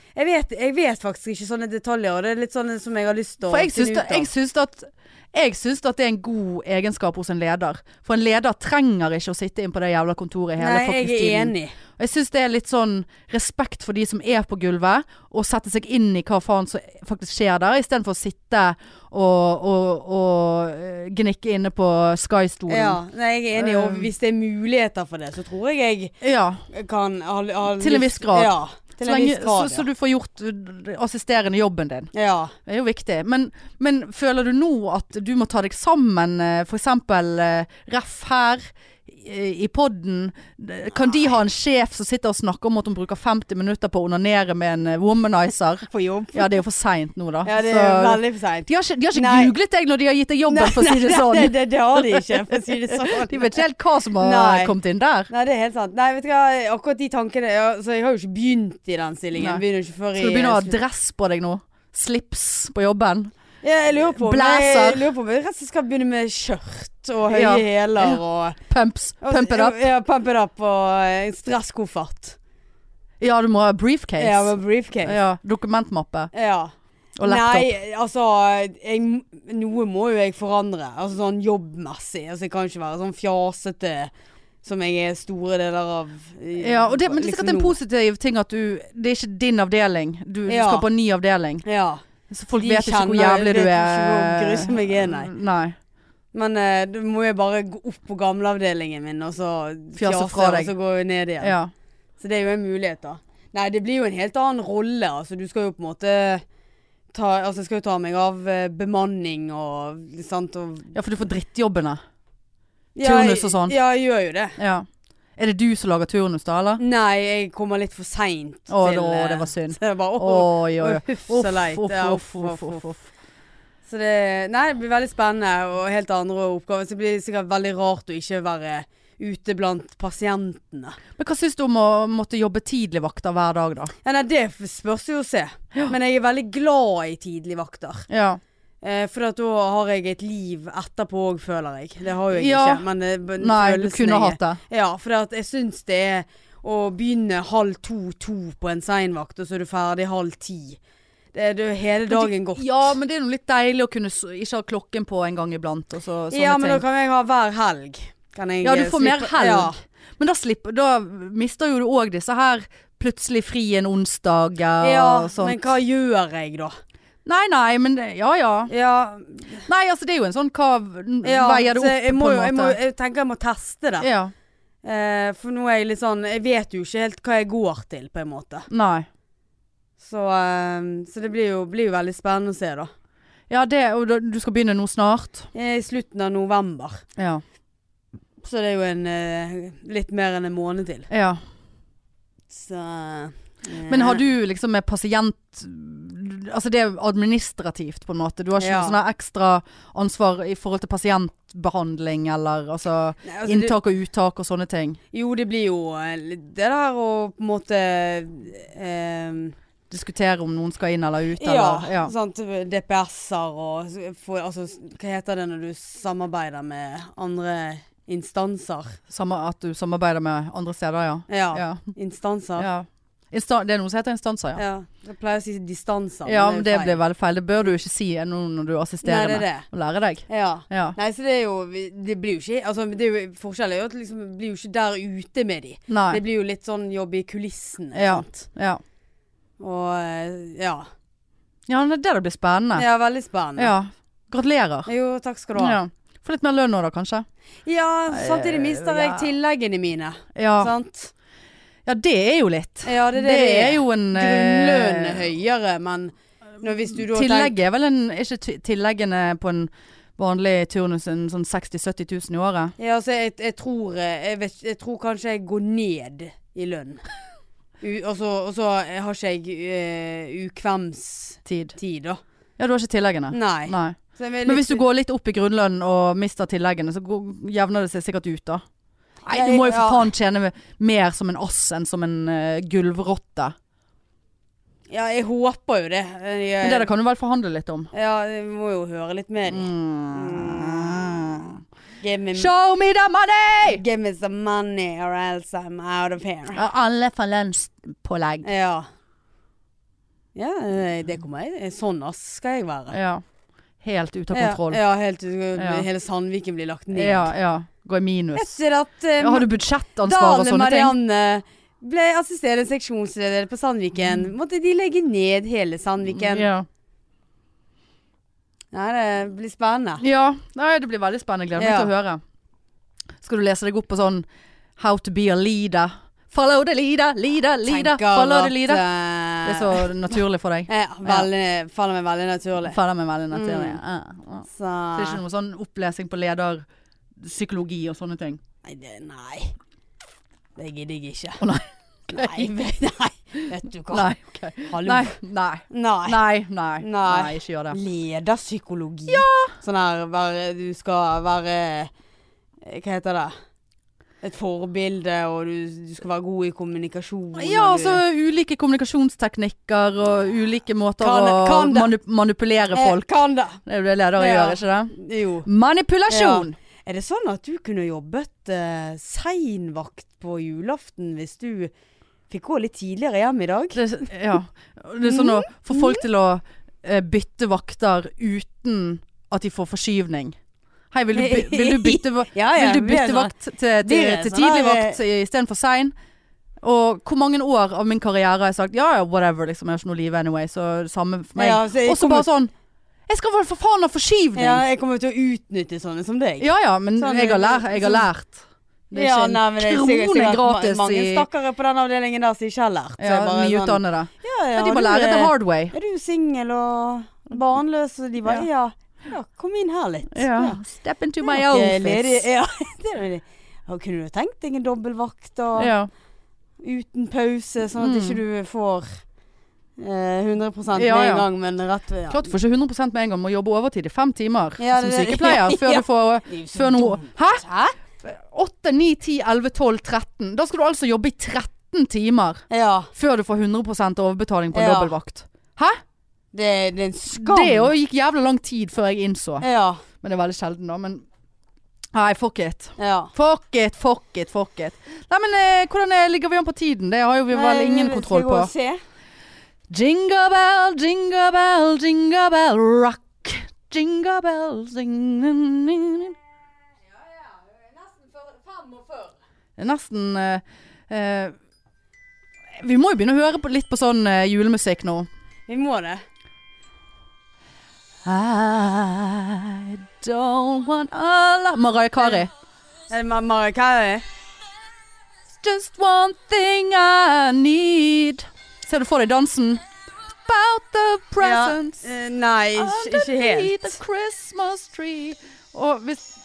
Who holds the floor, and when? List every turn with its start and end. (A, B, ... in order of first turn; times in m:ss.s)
0:00.2-0:04.3 A
0:03.5-0:23.0 B
0:10.6-0:11.8 A
0:22.7-0:26.1 A
0:23.6-0:24.1 B
0:26.2-0:26.6 B
0:26.7-0:29.9 A
0:27.8-0:32.1 B
0:32.1-0:32.5 A
0:32.6-0:55.3 B
0:45.8-0:46.5 A
0:47.4-0:49.5 A
0:50.5-0:53.6 A
0:54.2-0:54.7 A
0:55.3-1:00.8 A
0:59.4-0:59.6 B
1:00.1-1:03.3 B
1:03.6-1:08.6 A
1:04.1-1:05.0 B
1:07.3-1:09.8 B
1:09.2-1:12.4 A
1:13.2-1:16.3 B
1:14.2-1:15.2 A
1:16.3-1:24.1 A
1:17.2-1:17.7 B
1:24.6-1:27.8 A
1:26.6-1:31.6 B
1:30.5-1:30.8 A
1:31.6-1:35.3 A
1:32.3-1:35.8 B
1:36.3-1:41.5 A
1:40.0-1:40.7 B
1:41.4-1:41.7 B
1:42.2-1:46.4 A
1:47.1-1:50.9 A
1:50.9-1:52.0 B
1:53.0-1:54.6 A
1:53.0-1:53.8 B
1:54.6-1:56.8 B
1:56.8-2:02.9 A
1:58.7-2:03.0 B
2:03.8-2:11.0 A
2:11.2-2:13.9 B
2:14.0-2:18.1 A
2:18.1-2:18.4 B
2:18.8-2:30.8 A
2:22.3-2:22.8 B
2:23.4-2:24.6 B
2:31.3-2:32.9 A
2:32.1-2:36.8 B
2:36.3-2:39.8 A
2:38.6-2:45.6 B
2:44.8-2:46.8 A
2:47.2-2:48.7 B
2:48.7-2:49.6 A
2:49.6-2:52.8 B
2:51.2-2:54.1 A
2:54.0-2:54.3 B
2:54.8-2:58.7 A
2:58.7-2:59.1 B
3:00.0-3:02.9 A
3:03.5-3:05.5 B
3:05.5-3:07.0 A
3:07.2-3:07.4 B
3:08.4-3:11.1 A
3:11.1-3:11.4 B
3:12.5-3:14.2 A
3:13.9-3:25.0 B
3:18.6-3:19.0 A
3:23.2-3:23.8 A
3:25.1-3:29.6 A
3:29.9-3:32.1 B
3:31.4-3:39.0 A
3:39.1-3:41.8 B
3:41.3-3:42.7 A
3:42.6-3:44.6 B
3:44.6-3:47.0 A
3:46.2-3:51.0 B
3:49.0-3:49.7 A
3:50.3-3:58.4 A
3:55.9-3:56.2 B
3:57.9-3:58.8 B
3:59.6-4:00.9 A
4:01.7-4:02.8 B
4:02.7-4:03.7 A
4:03.6-4:04.9 B
4:04.9-4:05.8 A
4:05.6-4:07.2 B
4:07.6-4:11.1 A
4:08.1-4:09.3 B
4:10.4-4:10.7 B
4:11.8-4:15.2 B
4:12.8-4:17.5 A
4:16.9-4:22.7 B
4:22.8-4:27.0 A
4:27.8-4:32.2 A
4:31.4-4:31.8 B
4:32.6-4:38.6 B
4:33.3-4:34.8 A
4:39.2-4:40.1 A
4:39.3-4:43.5 B
4:44.9-4:46.9 A
4:46.6-4:47.9 B
4:47.9-4:51.1 A
4:49.5-4:51.6 B
4:52.0-4:52.5 A
4:52.4-4:53.8 B
4:53.7-4:56.6 A
4:56.5-4:58.5 B
4:58.4-4:58.9 A
5:00.3-5:03.0 A
5:02.9-5:03.2 B
5:03.8-5:04.8 B
5:04.3-5:07.3 A
5:05.6-5:05.8 B
5:06.9-5:08.6 B
5:08.3-5:09.5 A
5:09.2-5:11.0 B
5:10.0-5:16.5 A
5:16.2-5:16.7 B
5:18.7-5:20.0 A
5:20.0-5:22.2 B
5:21.6-5:21.9 A
5:23.2-5:24.2 B
5:24.8-5:28.8 B
5:27.6-5:29.9 A
5:29.4-5:31.3 B
5:30.7-5:32.8 A
5:32.6-5:34.4 B
5:33.3-5:33.8 A
5:34.5-5:35.2 A
5:35.0-5:36.6 B
5:37.2-5:38.4 B
5:38.6-5:39.5 A
5:40.6-5:41.4 A
5:41.4-5:42.5 B
5:42.1-5:44.1 A
5:43.9-5:47.8 B
5:44.7-5:45.2 A
5:45.7-5:46.2 A
5:46.8-5:51.9 A
5:49.1-5:49.5 B
5:52.6-5:53.4 A
5:54.2-5:58.0 A
5:57.3-6:04.9 B
6:01.0-6:01.9 A
6:02.7-6:03.6 A
6:04.2-6:05.5 A
6:05.4-6:06.5 B
6:06.1-6:11.7 A
6:12.3-6:14.1 A
6:13.7-6:20.4 B
6:15.0-6:16.0 A
6:20.9-6:25.9 B
6:21.1-6:25.0 A
6:26.6-6:32.5 B
6:31.4-6:32.3 A
6:33.1-6:34.6 B
6:34.4-6:38.1 A
6:36.4-6:41.3 B
6:38.9-6:50.6 A
6:43.0-6:45.7 B
6:50.1-6:52.2 B
6:51.2-6:55.7 A
6:55.6-6:55.9 B
6:56.6-6:59.0 A
6:57.8-6:58.2 B
6:59.8-7:02.3 A
7:00.8-7:01.2 B
7:02.1-7:07.4 B
7:04.6-7:07.8 A
7:08.0-7:12.4 B
7:12.5-7:12.9 A
7:12.9-7:15.8 B
7:14.5-7:14.9 A
7:16.3-7:17.7 A
7:17.1-7:19.4 B
7:19.4-7:19.8 A
7:20.0-7:21.0 B
7:21.9-7:28.5 B
7:22.8-7:23.1 A
7:27.3-7:28.8 A
7:29.7-7:36.2 B
7:36.9-7:39.1 A
7:39.6-7:41.3 B
7:42.6-7:45.1 B
7:45.5-7:46.0 A
7:48.0-7:52.3 B
7:52.0-7:52.2 A
7:52.9-7:54.0 A
7:55.4-7:59.6 B
8:00.2-8:01.8 B
8:01.2-8:03.8 A
8:02.6-8:06.1 B